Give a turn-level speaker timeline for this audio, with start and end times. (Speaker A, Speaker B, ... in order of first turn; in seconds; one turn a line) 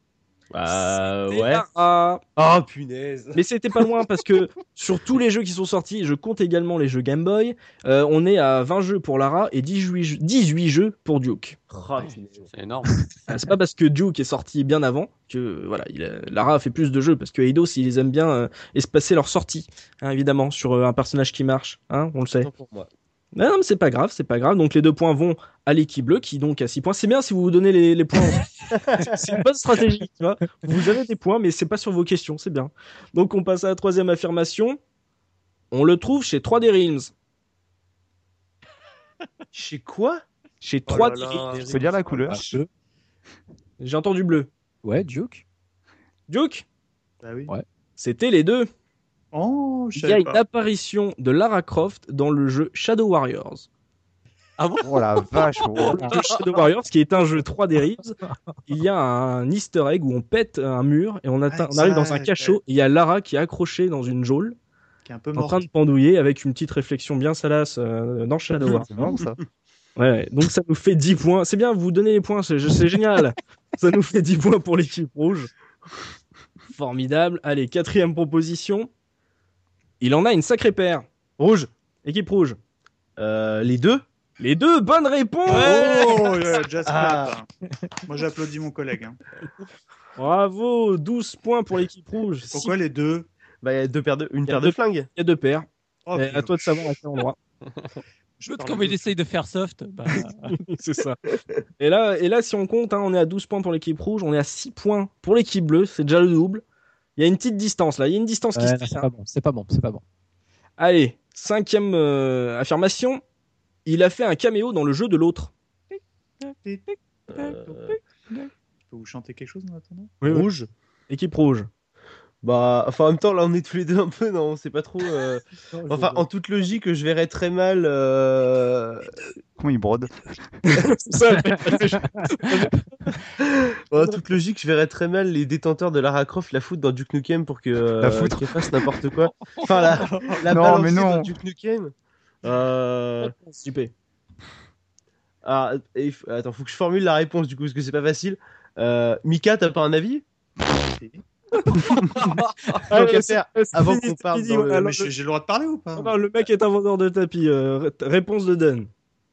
Speaker A: 0.5-1.6
Speaker B: 0.7-2.2
Speaker A: 2.4-3.4
Speaker B: 3.4-11.6
Speaker A: 11.7-12.5
Speaker C: 12.5-12.9
Speaker B: 13.3-22.5
Speaker A: 22.4-22.9
Speaker B: 23.4-34.8
Speaker A: 28.7-29.2
Speaker B: 35.7-37.1
Speaker A: 39.5-40.2
Speaker B: 40.6-41.7
Speaker D: 40.9-42.4
Speaker E: 41.7-42.5
Speaker F: 42.3-42.6
Speaker B: 43.8-44.5
Speaker F: 44.8-45.4
Speaker B: 46.3-46.6
Speaker D: 47.2-47.5
Speaker B: 48.0-48.7
Speaker D: 49.3-50.4
Speaker B: 50.0-53.7
Speaker C: 54.6-56.6
Speaker E: 54.8-56.2
Speaker B: 55.9-64.6
Speaker D: 61.5-62.6
Speaker D: 65.1-65.7
Speaker B: 65.3-69.0
Speaker E: 68.8-69.4
Speaker B: 70.0-75.5
Speaker B: 76.7-78.9
Speaker B: 80.0-81.1
Speaker A: 81.4-81.7
Speaker B: 82.0-82.6
Speaker A: 83.2-84.0
Speaker B: 84.4-86.1
Speaker G: 85.5-86.4
Speaker D: 85.5-87.5
Speaker A: 86.9-87.4
Speaker D: 88.0-89.2
Speaker B: 90.2-92.7
Speaker D: 92.5-93.3
Speaker A: 93.6-95.1
Speaker B: 94.5-97.4
Speaker D: 96.1-96.9
Speaker D: 98.4-99.1
Speaker G: 98.5-100.6
Speaker B: 100.5-101.2
Speaker A: 101.3-101.6
Speaker B: 101.8-106.6
Speaker B: 107.2-109.1
Speaker F: 108.5-110.0
Speaker B: 110.8-113.2
Speaker B: 113.9-115.5
Speaker A: 117.3-118.0
Speaker D: 118.9-120.2
Speaker B: 120.2-120.5
Speaker A: 120.3-120.7
Speaker B: 121.1-121.7
Speaker A: 122.4-129.2
Speaker E: 129.6-130.1
Speaker B: 130.7-133.2
Speaker F: 131.7-132.3
Speaker A: 133.4-143.3
Speaker E: 138.0-138.6
Speaker G: 139.5-140.1
Speaker D: 140.0-140.3
Speaker E: 140.5-141.3
Speaker B: 143.2-143.9
Speaker A: 145.4-150.2
Speaker D: 150.9-151.2
Speaker B: 151.7-155.1
Speaker A: 151.8-152.3
Speaker A: 152.9-154.9
Speaker D: 154.8-156.2
Speaker B: 156.0-158.9